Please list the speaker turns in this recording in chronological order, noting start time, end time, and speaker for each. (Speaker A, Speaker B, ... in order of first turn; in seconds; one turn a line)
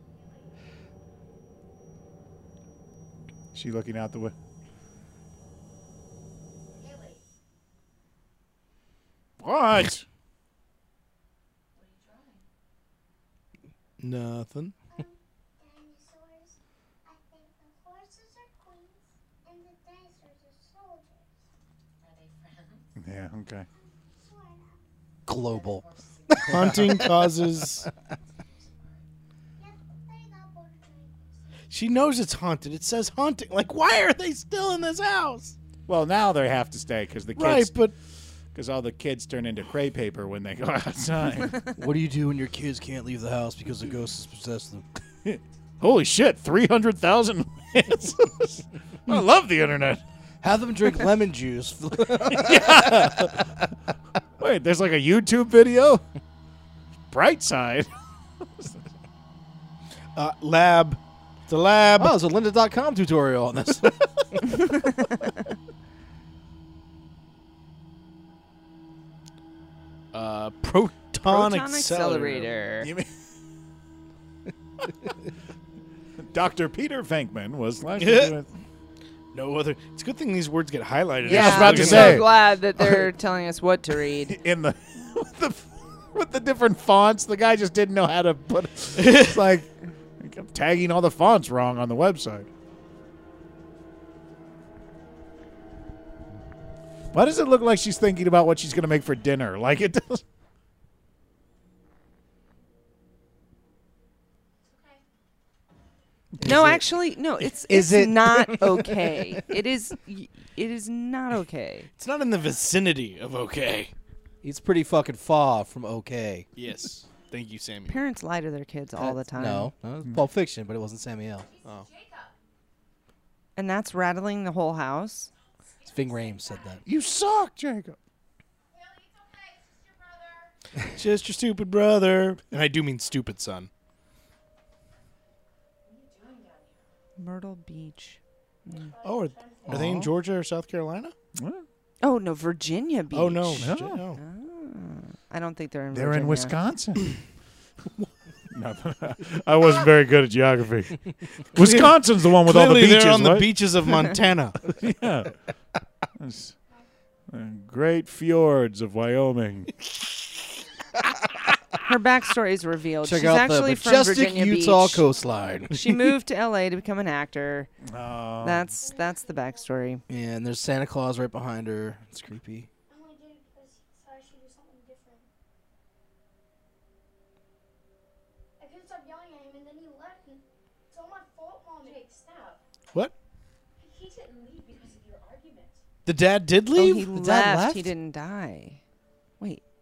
Speaker A: 3.5-4.3
Speaker B: 6.8-7.2
Speaker C: 6.8-7.2
Speaker A: 9.4-10.0
Speaker C: 11.7-12.4
Speaker D: 14.0-14.7
Speaker B: 14.9-21.3
Speaker C: 22.0-22.9
Speaker A: 23.0-23.7
Speaker B: 23.8-24.7
Speaker E: 25.3-27.4
Speaker C: 25.3-27.1
Speaker D: 26.5-27.9
Speaker C: 27.8-29.0
Speaker B: 29.6-31.4
Speaker D: 31.7-35.5
Speaker A: 35.9-37.7
Speaker D: 37.4-37.9
Speaker A: 38.5-41.6
Speaker E: 41.8-44.8
Speaker A: 45.2-50.0
Speaker E: 50.4-53.5
Speaker A: 52.3-53.5
Speaker A: 54.4-56.0
Speaker A: 57.1-57.9
Speaker D: 60.1-62.2
Speaker E: 62.0-64.7
Speaker D: 70.1-72.5
Speaker F: 71.2-72.9
Speaker A: 72.8-73.1
Speaker A: 76.2-78.5
Speaker D: 78.0-78.3
Speaker D: 79.3-82.3
Speaker F: 81.2-84.3
Speaker A: 81.2-82.3
Speaker A: 84.3-89.7
Speaker D: 89.0-89.4
Speaker A: 90.2-92.5
Speaker A: 97.1-100.2
Speaker C: 104.6-105.0
Speaker E: 106.4-106.8
Speaker F: 106.4-111.9
Speaker E: 107.7-109.4
Speaker D: 112.0-113.9
Speaker E: 114.4-116.5
Speaker D: 116.5-118.0
Speaker F: 117.9-119.7
Speaker E: 119.0-121.5
Speaker C: 121.4-122.4
Speaker F: 123.5-125.3
Speaker C: 125.3-127.0
Speaker E: 125.9-126.8
Speaker A: 126.8-128.0
Speaker B: 128.7-130.5
Speaker C: 128.8-130.5
Speaker D: 130.9-133.7
Speaker C: 135.8-136.9
Speaker F: 137.2-138.9
Speaker B: 138.7-139.8
Speaker D: 139.0-141.1
Speaker A: 139.7-140.1
Speaker A: 141.3-141.7
Speaker F: 142.0-146.5
Speaker D: 143.1-144.2
Speaker A: 143.6-144.0
Speaker A: 145.9-147.1
Speaker A: 148.5-151.0
Speaker A: 151.5-153.5
Speaker D: 151.6-154.6
Speaker A: 154.7-155.3
Speaker A: 156.2-156.5
Speaker A: 157.3-159.7
Speaker C: 160.5-161.0
Speaker F: 161.8-165.0
Speaker E: 163.0-166.0
Speaker F: 165.7-167.7
Speaker A: 167.8-168.7
Speaker F: 168.4-170.0
Speaker B: 168.7-170.0
Speaker E: 170.1-172.7
Speaker B: 172.9-175.3
Speaker B: 178.6-182.1
Speaker C: 181.8-182.6
Speaker C: 183.8-185.8
Speaker D: 186.0-187.1
Speaker F: 186.7-188.8
Speaker E: 187.1-187.9